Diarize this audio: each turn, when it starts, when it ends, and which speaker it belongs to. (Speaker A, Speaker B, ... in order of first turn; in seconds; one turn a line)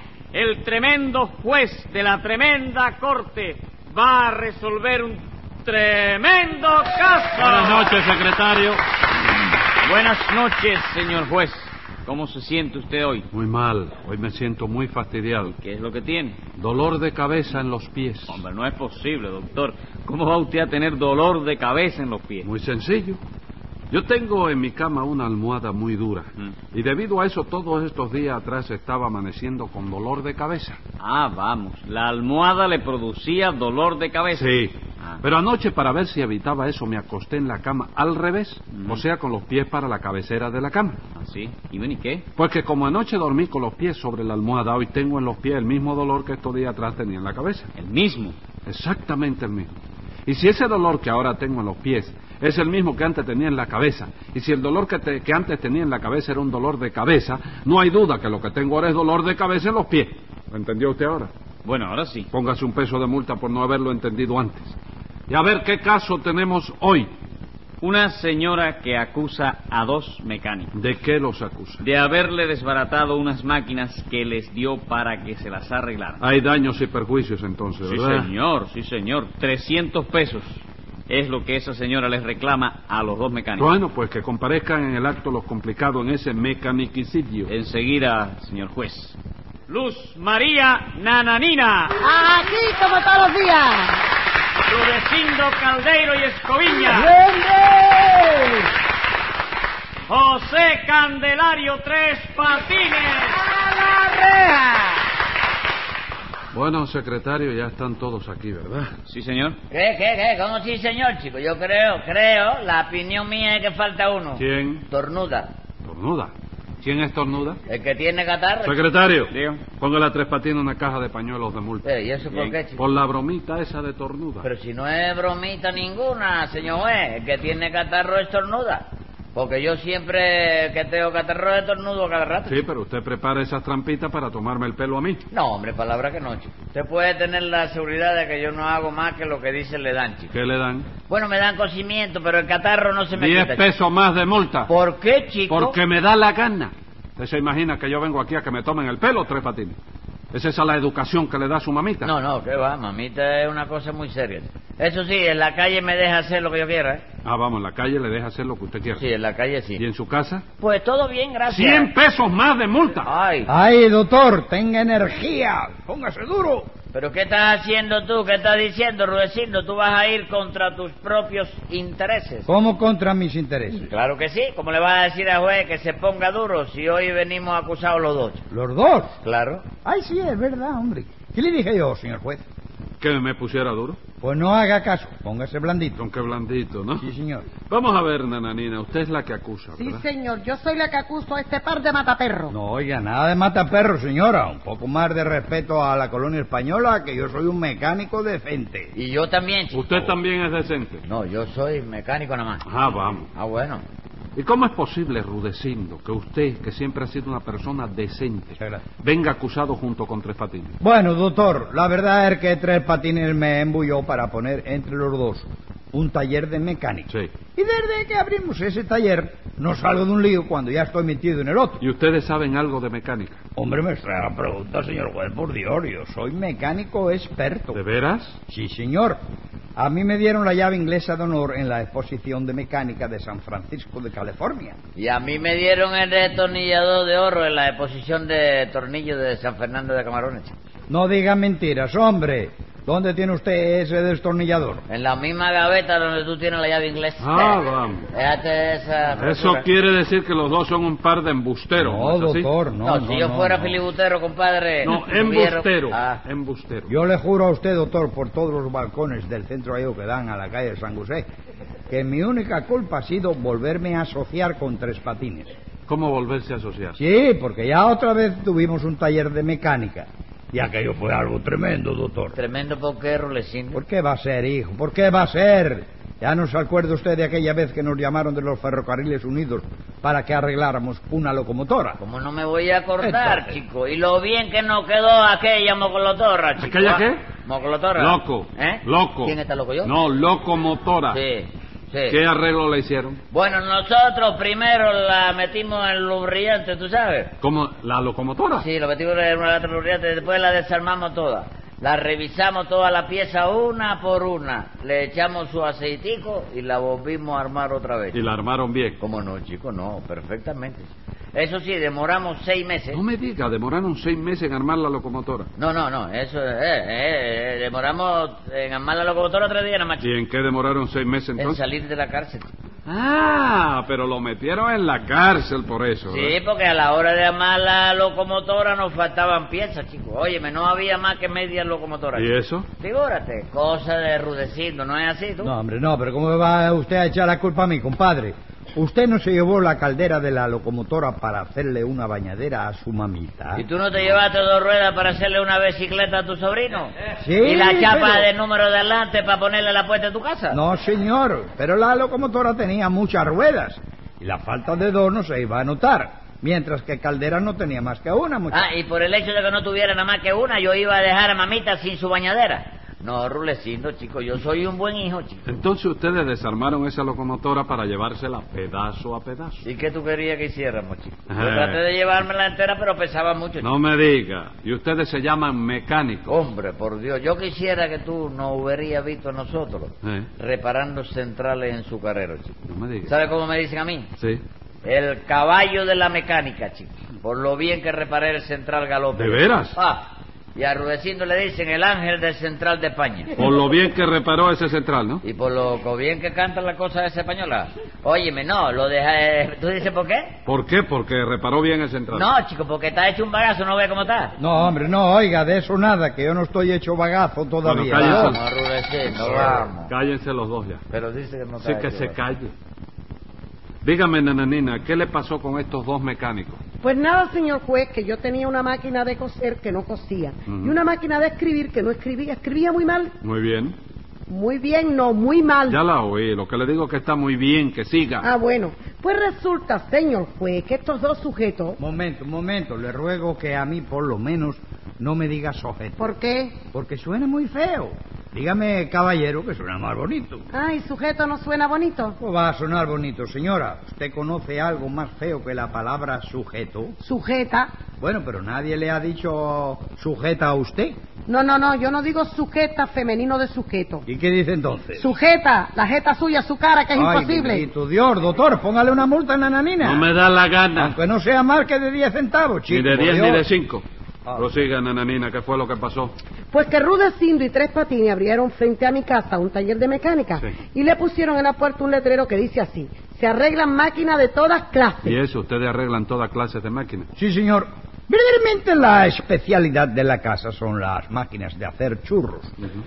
Speaker A: 0.3-7.2
Speaker B: 0.3-5.1
Speaker B: 5.7-7.9
Speaker C: 7.4-8.8
Speaker B: 9.9-11.5
Speaker A: 9.9-13.2
Speaker B: 12.1-13.2
Speaker C: 13.3-15.5
Speaker A: 15.7-16.4
Speaker B: 15.8-16.2
Speaker C: 16.6-18.4
Speaker B: 18.3-22.3
Speaker A: 18.5-22.4
Speaker C: 22.4-23.2
Speaker C: 23.9-30.8
Speaker B: 31.0-34.3
Speaker A: 31.1-34.4
Speaker C: 34.3-41.0
Speaker B: 41.2-42.2
Speaker A: 41.4-42.2
Speaker C: 42.4-47.7
Speaker B: 47.9-48.3
Speaker A: 47.9-48.3
Speaker C: 48.6-49.7
Speaker C: 50.2-61.3
Speaker A: 61.6-62.2
Speaker B: 61.8-62.2
Speaker C: 62.3-64.7
Speaker C: 65.3-67.1
Speaker A: 67.8-70.6
Speaker B: 67.9-70.5
Speaker C: 70.7-71.8
Speaker B: 72.0-76.1
Speaker A: 72.0-75.9
Speaker C: 76.2-78.3
Speaker A: 78.4-83.4
Speaker B: 78.5-80.2
Speaker B: 83.2-83.5
Speaker C: 83.6-87.5
Speaker B: 87.5-89.0
Speaker A: 87.8-89.1
Speaker A: 89.7-91.3
Speaker B: 89.7-94.0
Speaker A: 94.7-97.1
Speaker B: 94.8-97.1
Speaker A: 100.1-103.3
Speaker B: 100.1-103.2
Speaker C: 106.5-108.9
Speaker A: 109.1-109.5
Speaker B: 109.2-109.5
Speaker D: 109.7-115.5
Speaker C: 114.3-114.8
Speaker C: 115.8-117.6
Speaker D: 117.7-118.8
Speaker C: 118.6-124.5
Speaker A: 119.3-119.6
Speaker D: 121.8-122.8
Speaker D: 124.4-132.6
Speaker C: 132.4-135.2
Speaker D: 135.3-140.3
Speaker C: 140.3-140.9
Speaker D: 141.1-143.6
Speaker C: 143.2-144.7
Speaker D: 144.7-145.8
Speaker C: 145.5-149.8
Speaker C: 150.3-152.1
Speaker D: 152.0-157.0
Speaker C: 157.2-159.0
Speaker D: 158.9-159.8
Speaker C: 159.8-160.4
Speaker D: 160.6-161.9
Speaker C: 161.5-163.1
Speaker D: 163.0-163.5
Speaker E: 163.5-166.7
Speaker D: 166.9-172.5
Speaker E: 172.5-173.9
Speaker D: 173.8-178.4
Speaker E: 178.5-179.1
Speaker D: 179.2-179.7
Speaker E: 179.8-182.4
Speaker C: 183.0-184.0
Speaker E: 184.2-186.0
Speaker C: 185.9-187.1
Speaker E: 187.0-187.5
Speaker C: 187.6-190.1
Speaker B: 189.8-192.5
Speaker E: 192.5-198.9
Speaker D: 198.9-199.9
Speaker C: 199.7-201.0
Speaker D: 201.0-202.6
Speaker C: 202.7-203.3
Speaker D: 203.3-203.8
Speaker C: 204.3-210.7
Speaker E: 210.8-221.8
Speaker C: 221.8-223.4
Speaker E: 223.6-227.8
Speaker C: 227.7-228.4
Speaker E: 228.5-229.2
Speaker E: 229.8-234.8
Speaker D: 234.9-240.5
Speaker E: 240.9-244.8
Speaker D: 244.9-247.6
Speaker C: 247.2-248.1
Speaker D: 248.1-249.7
Speaker C: 249.2-252.5
Speaker E: 251.8-253.8
Speaker D: 252.8-256.2
Speaker C: 254.8-256.9
Speaker E: 256.9-261.3
Speaker E: 261.9-265.5
Speaker C: 265.9-267.0
Speaker E: 267.0-272.4
Speaker D: 272.3-273.8
Speaker E: 273.7-282.0
Speaker D: 282.0-289.9
Speaker C: 283.0-283.4
Speaker C: 286.6-287.2
Speaker C: 287.9-291.2
Speaker D: 291.1-292.2
Speaker C: 292.1-293.2
Speaker D: 293.3-297.3
Speaker C: 297.4-298.7
Speaker D: 298.6-308.2
Speaker C: 308.1-309.0
Speaker D: 309.0-313.0
Speaker C: 312.9-315.5
Speaker D: 315.6-320.1
Speaker C: 320.0-321.6
Speaker D: 321.4-322.5
Speaker C: 322.9-326.4
Speaker D: 326.1-335.5
Speaker C: 332.1-332.7
Speaker E: 335.4-343.6
Speaker D: 343.5-350.6
Speaker E: 347.2-348.3
Speaker E: 350.5-358.6
Speaker D: 358.5-365.4
Speaker C: 365.5-369.6
Speaker D: 369.6-373.7
Speaker C: 371.3-371.8
Speaker C: 373.6-376.4
Speaker D: 376.3-384.1
Speaker C: 382.7-383.1
Speaker D: 384.8-390.0
Speaker C: 389.1-389.8
Speaker D: 390.5-393.3
Speaker C: 393.4-395.2
Speaker D: 395.2-400.3
Speaker C: 400.4-402.3
Speaker D: 402.1-404.3
Speaker E: 404.4-408.4
Speaker C: 407.6-408.4
Speaker D: 407.9-409.9
Speaker C: 409.2-410.8
Speaker D: 410.9-412.2
Speaker C: 411.6-412.5
Speaker C: 413.8-416.6
Speaker B: 416.8-423.1
Speaker C: 420.4-420.8
Speaker C: 423.2-423.7
Speaker B: 424.3-425.8
Speaker C: 425.7-428.3
Speaker B: 428.2-431.8
Speaker E: 431.8-436.1
Speaker B: 436.0-436.5
Speaker E: 436.6-440.5
Speaker B: 440.6-442.1
Speaker E: 442.2-447.0
Speaker B: 447.0-447.7
Speaker E: 448.0-450.9
Speaker B: 451.3-454.0
Speaker E: 454.1-455.1
Speaker B: 455.0-457.6
Speaker E: 456.9-460.1
Speaker C: 459.8-460.9
Speaker E: 460.8-463.4
Speaker C: 462.7-463.8
Speaker C: 464.3-466.1
Speaker B: 466.5-475.1
Speaker C: 475.0-477.1
Speaker E: 477.2-482.5